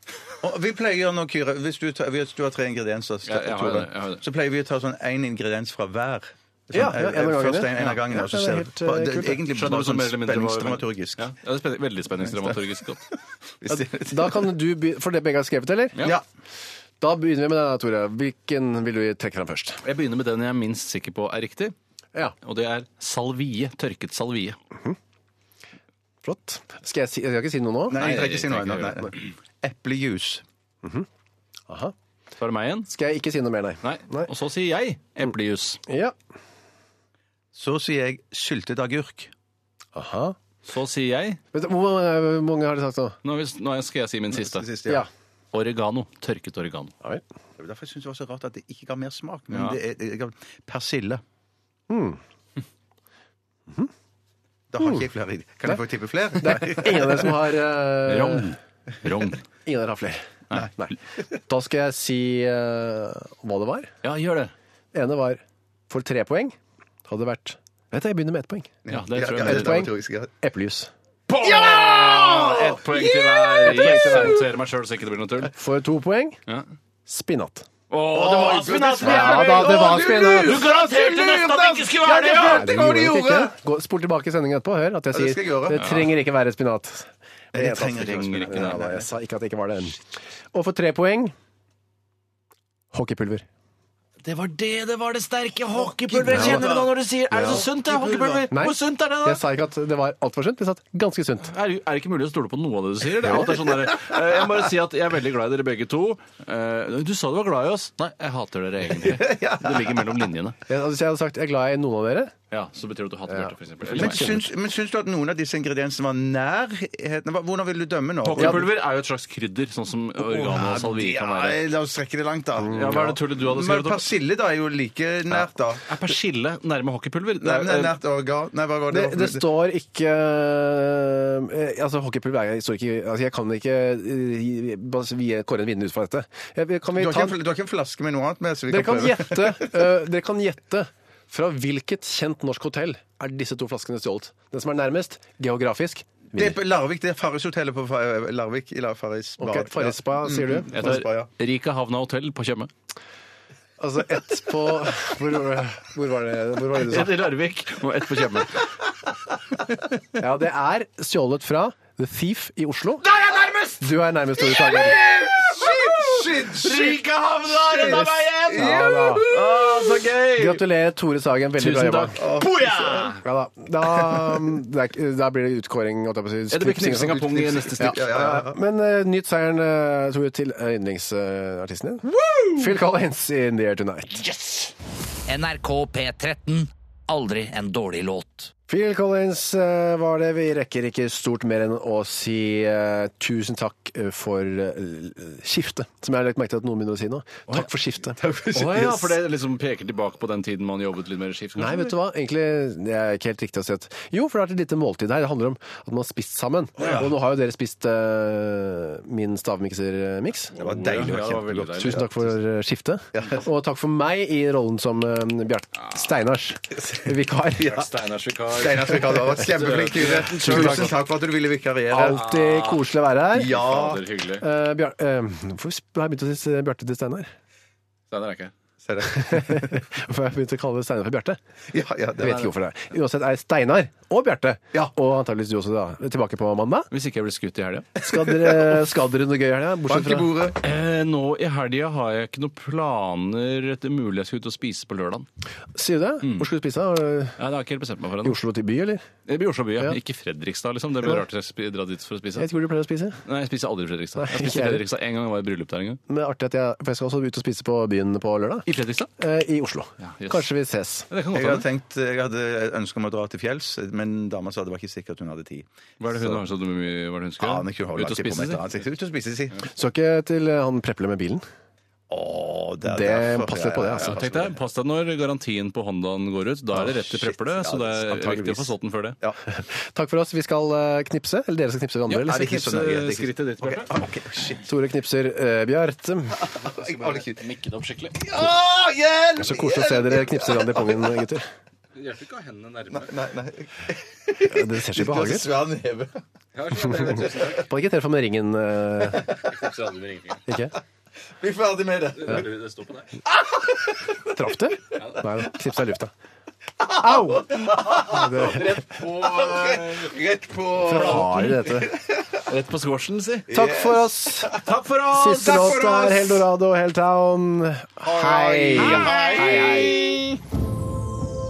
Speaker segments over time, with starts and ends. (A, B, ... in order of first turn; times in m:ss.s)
0:00.4-0:11.3 A
0:03.2-0:04.2 B
0:06.7-0:09.4 C
0:09.5-0:13.0 B
0:13.6-0:14.4 A
0:13.7-0:16.0 C
0:17.0-0:19.8 C
0:19.8-0:21.7 B
0:22.4-0:24.6 B
0:26.2-0:28.0 C
0:27.9-0:30.4 A
0:28.0-0:29.3 B
0:31.7-0:31.9 C
0:32.4-0:32.9 B
0:32.9-0:34.3 C
0:33.8-0:35.8 B
0:35.9-0:36.2 C
0:37.5-0:39.3 A
0:39.9-0:40.4 C
0:40.6-0:41.4 B
0:41.5-0:43.2 C
0:43.2-0:44.6 B
0:44.3-0:45.0 A
0:45.5-0:46.9 B
0:47.6-0:51.2 A
0:49.5-0:49.8 B
0:51.9-0:52.2 C
0:54.7-0:57.3 A
0:56.4-0:58.5 C
0:58.0-0:59.4 B
0:59.6-1:03.9 C
1:00.5-1:00.9 B
1:04.0-1:04.5 B
1:04.9-1:08.8 C
1:08.8-1:10.3 A
1:08.9-1:09.8 B
1:09.4-1:10.9 C
1:11.3-1:15.5 B
1:11.4-1:14.4 A
1:13.6-1:14.4 C
1:15.5-1:16.4 C
1:17.0-1:17.7 C
1:17.9-1:22.7 B
1:18.1-1:23.5 A
1:19.0-1:20.7 C
1:22.4-1:30.0 C
1:25.1-1:26.0 A
1:25.7-1:26.1 B
1:27.5-1:29.1 A
1:27.9-1:28.8 B
1:30.5-1:31.3 C
1:32.9-1:33.4 C
1:34.2-1:39.4 B
1:36.1-1:38.5 A
1:36.3-1:36.6 C
1:37.3-1:37.6 C
1:38.5-1:41.5 C
1:41.5-1:50.6 B
1:43.2-1:43.5 C
1:48.9-1:50.2 A
1:50.7-1:52.3 C
1:52.5-1:54.4 B
1:53.3-1:54.5 C
1:54.0-1:58.7 A
1:58.2-2:01.6 B
1:58.4-1:58.6 C
2:00.2-2:05.8 A
2:02.6-2:03.2 C
2:02.7-2:04.0 B
2:05.3-2:08.0 B
2:07.4-2:09.4 A
2:08.9-2:17.4 C
2:16.9-2:19.7 A
2:18.7-2:26.6 C
2:26.3-2:31.3 A
2:29.4-2:30.8 C
2:30.7-2:32.7 B
2:33.8-2:37.3 C
2:36.9-2:38.7 B
2:40.2-2:43.0 C
2:43.0-2:43.8 B
2:43.8-2:45.0 C
2:44.4-2:50.6 B
2:45.4-2:47.0 A
2:47.5-2:49.6 A
2:47.8-2:49.3 C
2:50.4-2:52.2 C
2:51.6-2:53.2 B
2:52.2-2:53.1 A
2:53.2-3:04.2 C
2:54.0-2:54.3 A
2:56.5-2:58.1 B
2:57.8-2:58.5 A
3:05.3-3:08.5 D
3:08.7-3:18.2 C
3:18.2-3:19.1 A
3:18.5-3:21.9 B
3:21.5-3:37.8 C
3:26.8-3:27.1 A
3:30.5-3:32.4 B
3:30.6-3:31.8 A
3:33.1-3:33.4 A
3:37.6-3:41.0 B
3:38.5-3:42.2 A
3:40.3-3:40.9 C
3:41.9-3:43.5 C
3:42.0-3:42.8 B
3:43.3-3:44.0 A
3:43.4-3:44.4 B
3:44.4-3:47.3 C
3:48.1-3:48.5 B
3:48.8-3:49.9 A
3:49.1-3:51.4 C
3:51.7-3:52.5 A
3:52.2-3:56.9 C
3:56.9-3:58.0 B
3:58.0-4:00.5 C
3:58.0-3:58.8 A
3:59.9-4:00.6 A
4:00.6-4:05.3 B
4:05.7-4:07.4 C
4:06.2-4:06.5 B
4:07.4-4:08.4 B
4:08.2-4:09.0 C
4:09.3-4:12.5 B
4:12.4-4:13.2 C
4:13.2-4:16.0 B
4:14.2-4:14.8 C
4:16.1-4:18.7 C
4:18.7-4:19.1 B
4:19.2-4:21.1 C
4:20.0-4:20.5 B
4:21.1-4:21.6 B
4:21.3-4:26.4 A
4:26.0-4:28.6 B
4:27.4-4:29.6 A
4:29.7-4:31.4 C
4:32.1-4:34.5 A
4:32.8-4:34.2 C
4:34.0-4:39.2 B
4:36.9-4:38.4 A
4:38.4-4:38.6 C
4:39.5-4:42.6 C
4:42.1-4:44.0 B
4:42.3-4:44.7 A
4:44.6-4:46.4 C
4:46.4-4:47.5 A
4:46.6-4:48.2 B
4:48.1-4:51.2 A
4:49.4-4:51.5 C
4:51.9-4:53.1 B
4:52.9-4:56.2 A
4:54.5-4:55.5 C
4:56.5-4:57.7 B
4:56.9-4:59.3 C
4:59.1-4:59.5 A
4:59.5-5:00.4 B
5:00.5-5:00.7 C
5:01.4-5:02.5 A
5:02.2-5:03.1 B
5:03.3-5:04.4 A
5:04.3-5:06.1 C
5:05.0-5:05.2 B
5:06.8-5:12.4 A
5:07.0-5:08.8 C
5:08.3-5:10.1 B
5:10.8-5:11.9 C
5:10.9-5:11.6 B
5:12.4-5:13.5 B
5:13.5-5:14.6 A
5:13.5-5:14.6 C
5:14.5-5:15.8 B
5:15.1-5:20.0 C
5:15.3-5:16.4 A
5:18.0-5:20.3 A
5:18.7-5:20.0 B